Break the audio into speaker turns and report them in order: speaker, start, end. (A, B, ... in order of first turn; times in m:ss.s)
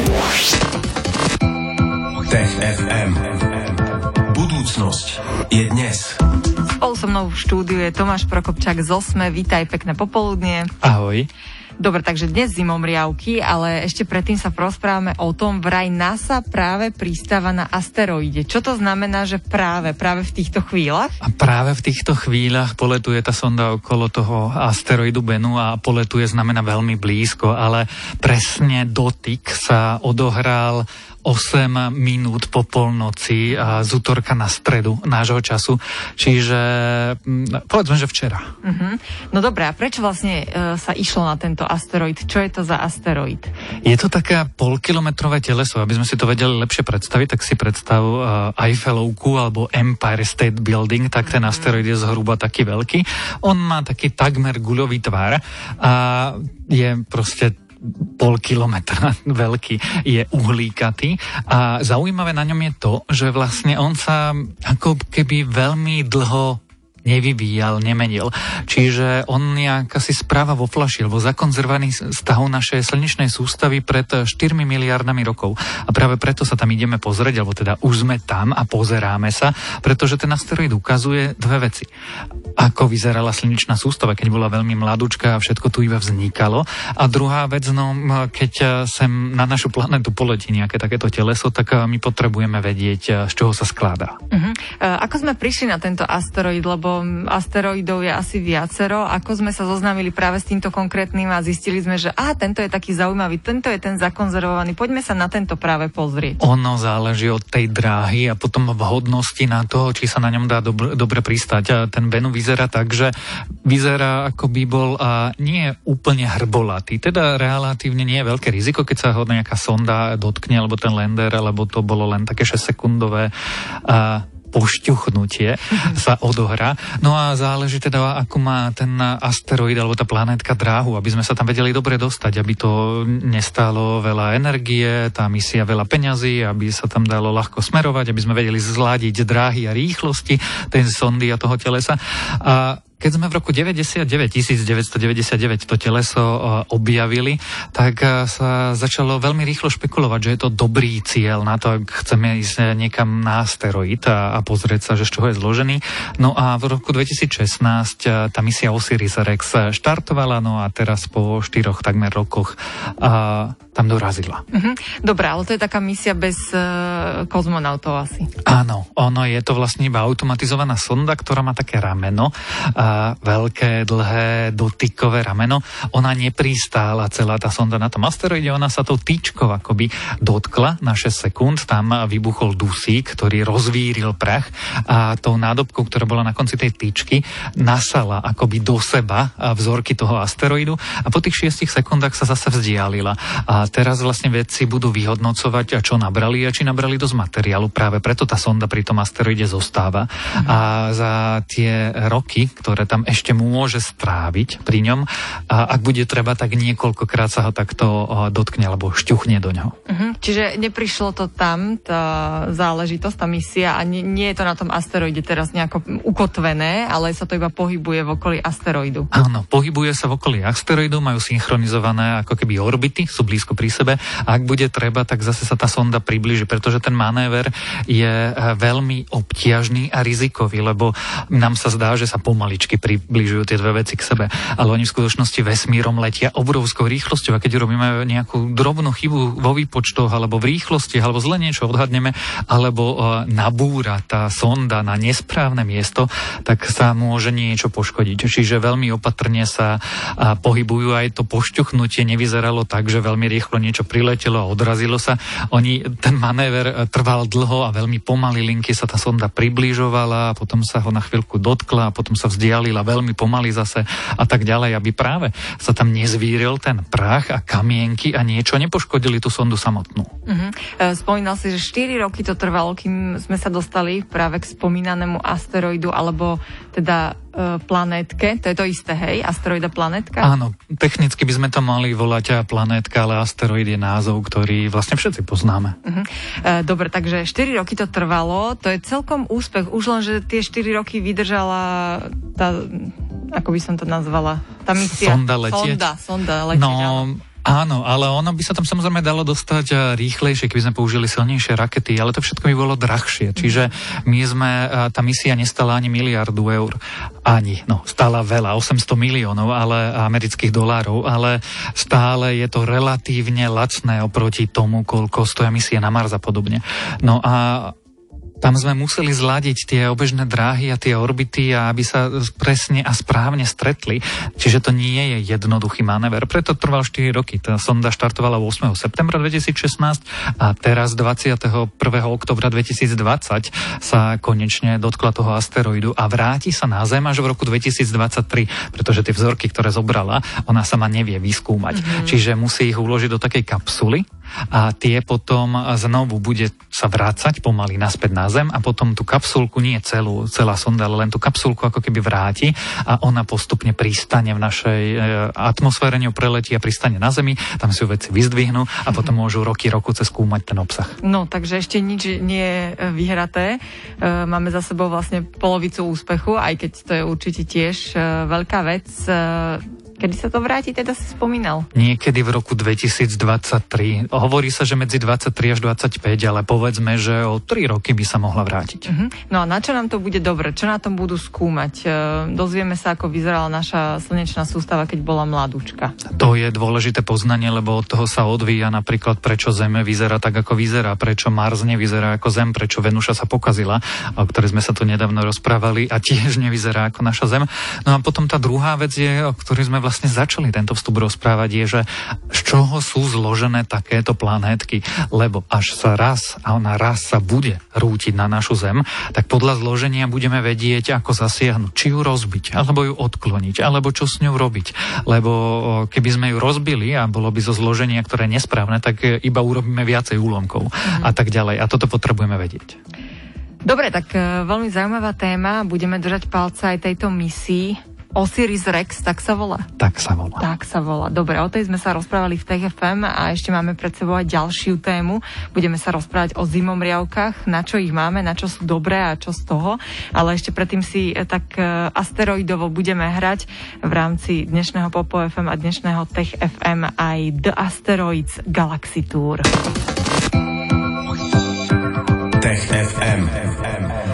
0:02.3-0:06.2 A
0:06.7-0:10.7 B
0:10.8-0:11.3 C
0:11.8-0:21.2 B
0:21.2-0:38.4 C
0:38.6-0:43.5 B
0:43.8-1:21.9 C
1:22.6-1:34.2 C
1:34.3-1:46.4 B
1:46.4-1:53.1 C
1:53.6-2:03.3 C
2:03.8-2:44.4 C
2:44.5-2:48.3 B
2:48.4-3:29.7 C
3:29.8-3:39.1 B
3:39.1-4:30.1 C
4:30.2-4:40.3 B
4:40.2-4:45.8 C
4:45.8-4:57.1 B
4:54.8-4:55.8 C
4:56.5-5:17.7 C
5:03.4-5:03.7 B
5:18.4-6:01.0 C
5:41.7-5:42.2 B
6:01.0-6:11.7 B
6:11.7-6:18.9 C
6:18.8-6:25.9 B
6:26.1-7:02.8 C
7:00.8-7:01.1 B
7:03.6-7:09.7 B
7:09.8-7:10.4 C
7:10.4-7:29.5 B
7:32.4-7:33.9 A